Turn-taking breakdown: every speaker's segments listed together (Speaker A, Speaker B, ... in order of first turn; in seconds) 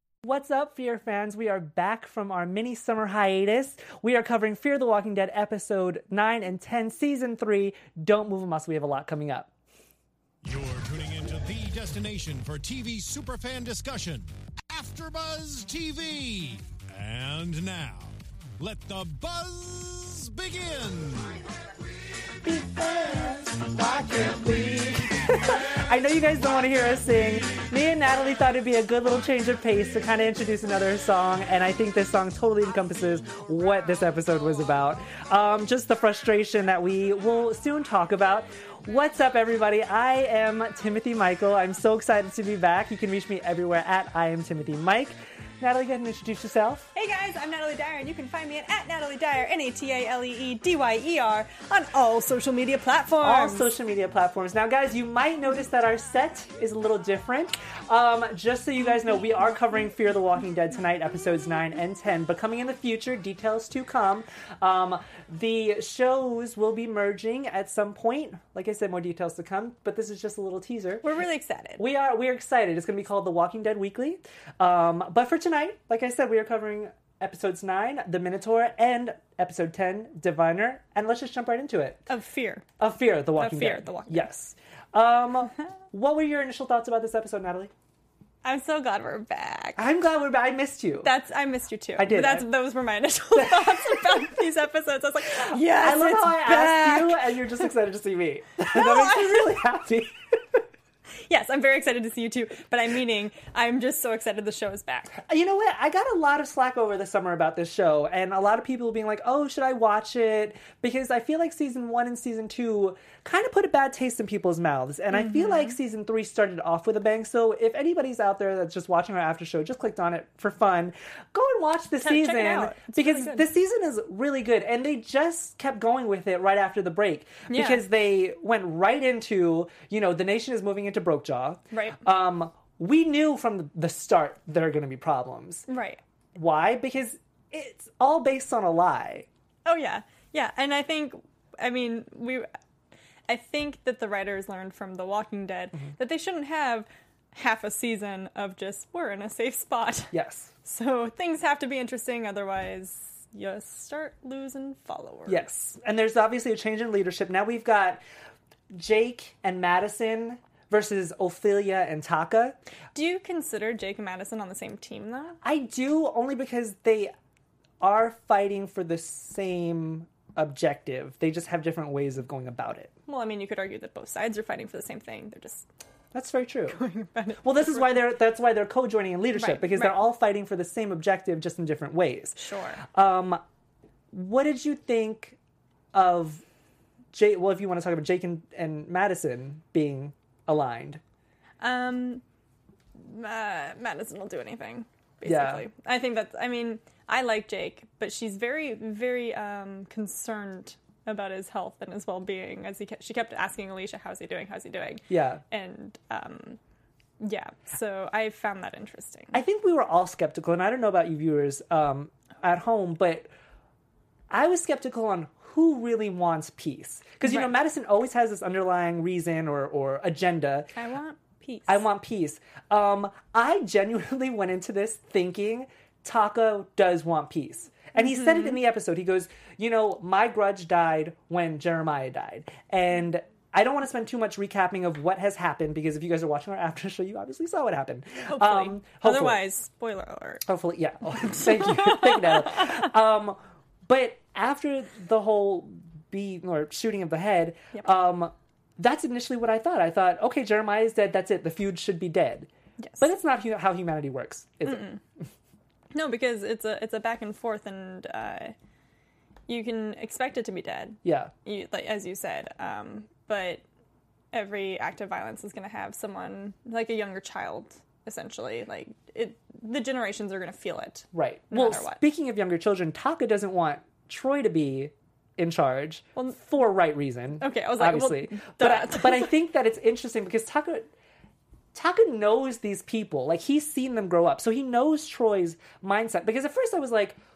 Speaker A: 0.2-9.5, 22.4-46.9, 53.2-71.0, 71.8-82.1, 82.8-87.7, 89.8-91.1, 92.0-92.5, 93.4-94.2, 95.4-100.7, 105.2-135.7, 136.3-139.3, 150.1-150.5, 155.3-158.0, 158.7-162.6, 165.4-167.1, 167.8-172.9, 176.1-176.8, 177.4-183.4, 184.1-185.4, 185.9-186.4, 187.1-191.0, 195.2-195.7, 205.1-205.4, 209.3-213.3, 214.3-220.7, 221.7-239.4, 240.4-254.9, 261.0-261.3, 271.1-280.9, 281.7-287.2
Speaker B: 10.4-21.4
Speaker C: 46.9-53.7, 71.0-71.8, 82.1-82.7, 83.4-84.3, 88.4-89.8, 91.0-97.6, 98.6-99.5, 101.3-105.2, 115.1-115.8, 122.0-123.5, 127.5-127.8, 131.7-132.0, 135.7-136.0, 139.7-142.5, 143.3-155.5, 162.9-165.4, 173.1-175.7, 176.7-178.1, 179.3-180.0, 182.4-182.8, 191.6-192.2, 193.0-206.6, 207.2-209.4, 217.2-217.5, 220.8-221.8, 228.0-228.5, 238.3-240.5, 241.6-242.6, 254.7-255.0, 255.9-258.6, 259.5-263.6, 264.3-272.0, 277.4-279.3